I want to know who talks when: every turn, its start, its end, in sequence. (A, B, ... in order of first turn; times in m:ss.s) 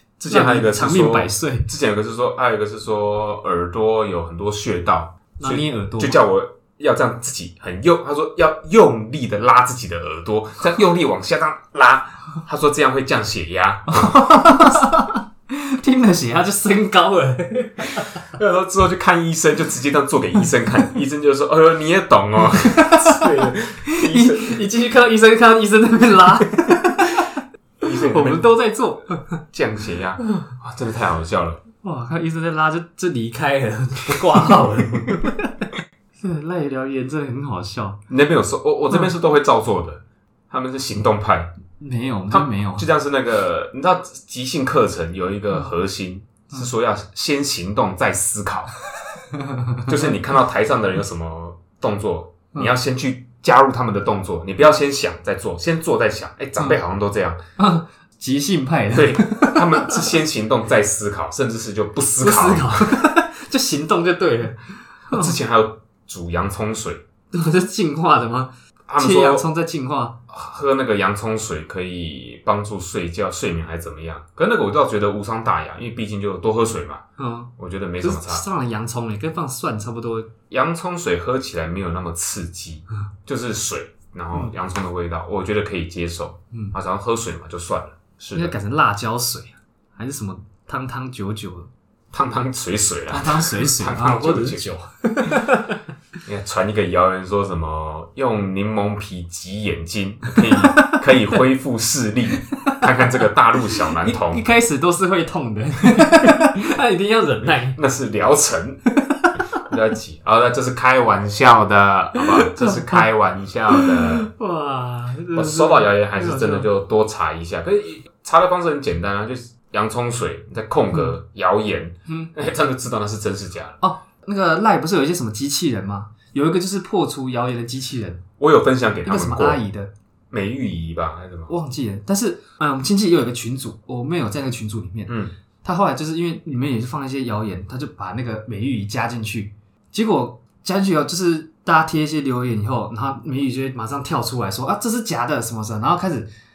0:00.2-0:14.2 A
0:00.3-0:01.7 B
0:05.4-0:06.2 B
0:13.9-0:18.2 B
0:18.2-0:24.6 A
0:22.6-0:23.3 B
0:23.9-0:27.3 B
0:27.8-0:28.4 A
0:28.1-0:29.2 B
0:29.5-0:31.6 A
0:31.8-0:35.6 B
0:36.2-0:38.0 B
0:38.1-0:41.6 A
0:41.8-0:42.9 B
0:42.3-0:48.7 A
0:49.3-0:49.8 B
0:49.9-0:57.4 A
0:57.6-1:00.0 B
0:58.9-1:03.0 A
1:02.2-1:05.3 B
1:05.1-1:07.0 A
1:07.3-1:10.2 B
1:08.9-1:09.5 A
1:10.3-1:17.0 A
1:17.2-1:20.3 B
1:17.6-1:18.5 A
1:20.5-1:28.6 A
1:28.4-1:31.7 B
1:32.1-1:34.6 A
1:33.1-1:35.8 B
1:36.2-1:44.4 A
1:40.5-1:41.0 B
1:44.0-1:47.8 B
1:47.8-1:48.8 A
1:49.7-1:54.3 A
1:52.4-1:53.0 B
1:53.8-1:56.7 B
1:55.3-2:03.8 A
2:02.1-2:02.3 B
2:03.8-2:08.2 B
2:08.4-2:09.6 A
2:09.0-2:09.9 B
2:10.3-2:11.5 A
2:11.5-2:26.3 B
2:15.1-2:15.3 A